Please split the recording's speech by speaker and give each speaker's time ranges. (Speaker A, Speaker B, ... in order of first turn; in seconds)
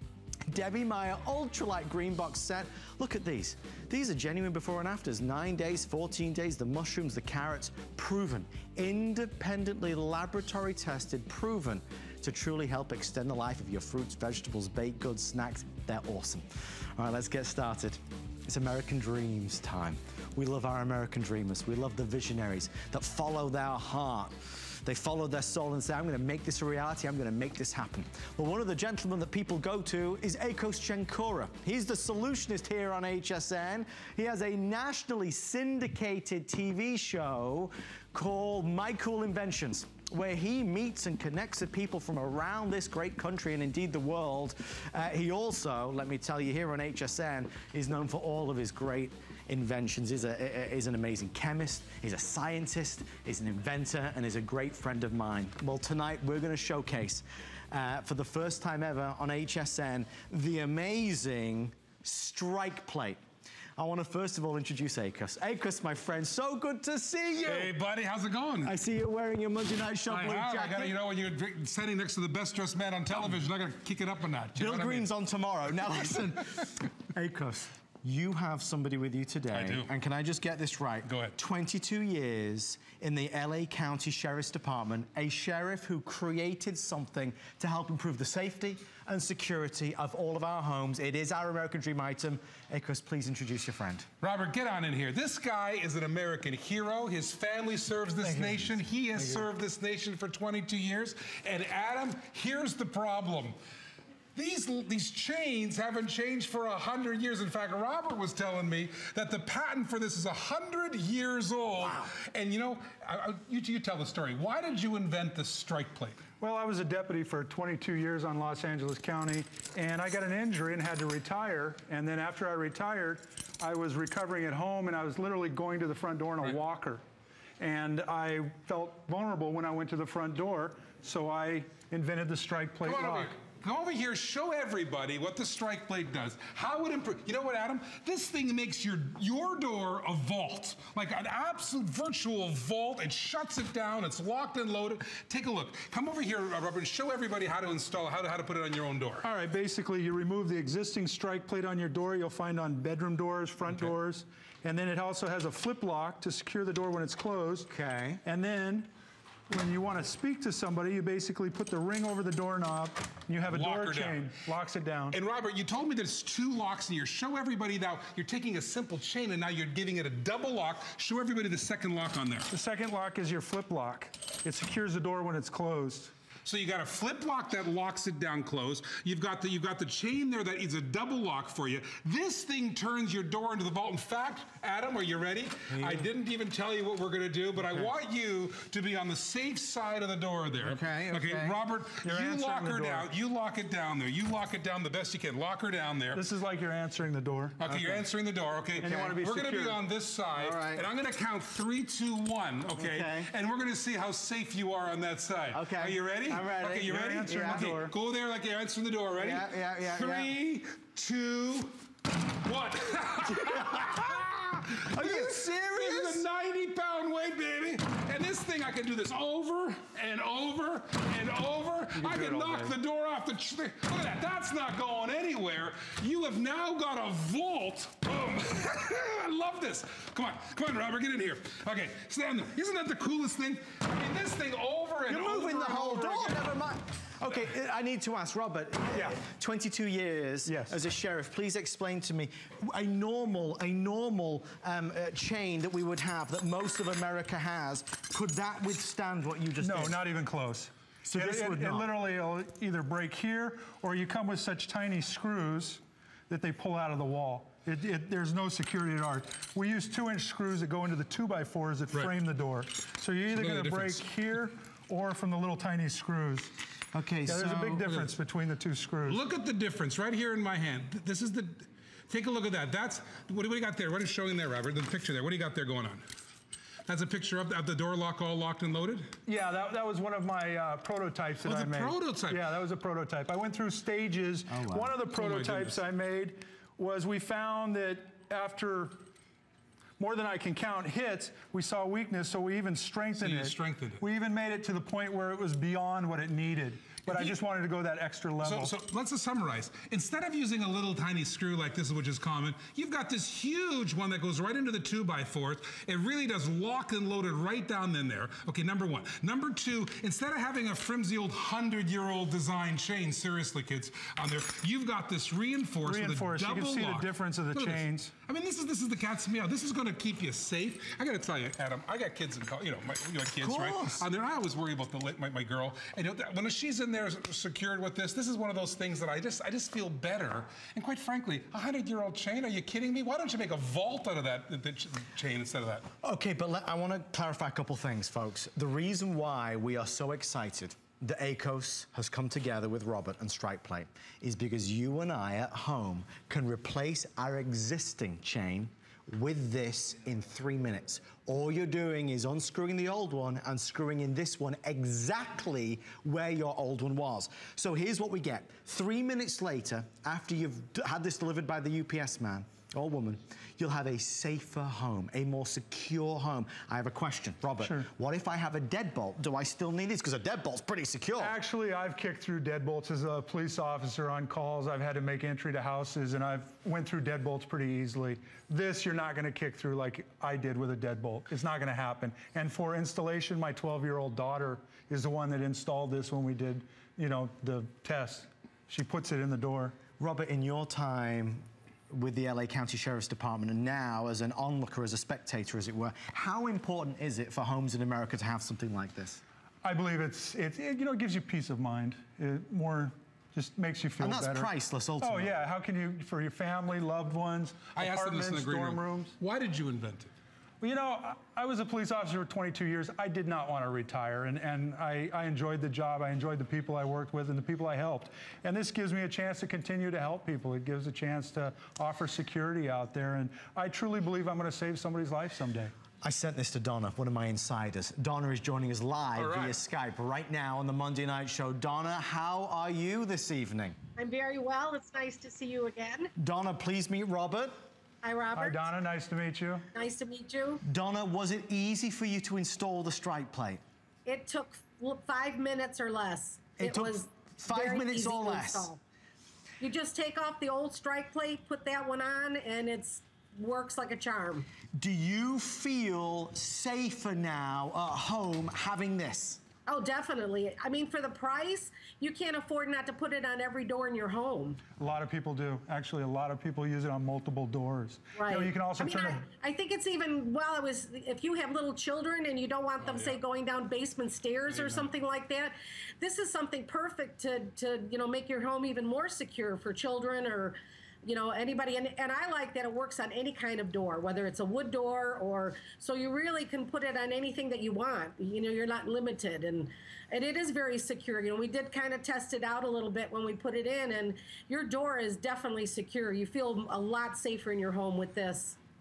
Speaker A: 0.5-63.2, 63.8-67.7, 68.6-71.0, 74.6-94.1, 98.2-98.8, 157.7-158.2, 190.6-191.5, 197.7-198.0, 198.8-199.4, 200.3-200.8, 202.8-203.3, 205.5-207.8, 209.2-210.3, 213.3-214.2, 214.7-216.2, 235.1-250.0, 251.0-251.9, 266.9-267.9, 284.5-284.9, 323.4-324.0, 336.0-371.3, 390.0-399.2, 404.0-405.4, 426.0-433.8, 436.2-437.6, 440.6-443.6, 446.6-448.7, 454.8-459.4
Speaker B: 67.4-68.7, 70.1-75.1, 79.5-79.9, 81.0-81.4, 94.2-103.5, 104.3-116.3, 132.8-149.2, 163.5-164.3, 165.1-172.5, 176.4-196.2, 197.6-236.5, 263.3-264.1, 269.1-276.1, 276.9-279.1, 281.4-282.4, 285.1-285.8, 293.2-294.0, 297.1-297.4, 298.4-335.9, 407.7-410.1, 429.1-429.6, 472.8-473.2, 474.5-474.9
Speaker C: 116.4-127.0, 127.6-133.3, 149.2-157.7, 158.2-158.9, 159.5-165.2, 172.5-176.1, 192.0-193.1, 196.1-197.8, 198.8-199.8, 206.8-207.9, 222.0-222.7, 240.4-240.8, 249.6-266.5, 267.2-269.2, 279.3-289.1, 290.0-298.7, 315.8-318.1, 367.6-367.9, 371.2-389.8, 399.6-409.1, 410.6-425.7, 438.4-439.6, 464.8-469.2
Speaker D: 434.0-436.1, 438.0-438.7, 439.7-440.6, 444.1-448.8, 449.6-454.5, 459.7-464.6, 468.2-498.6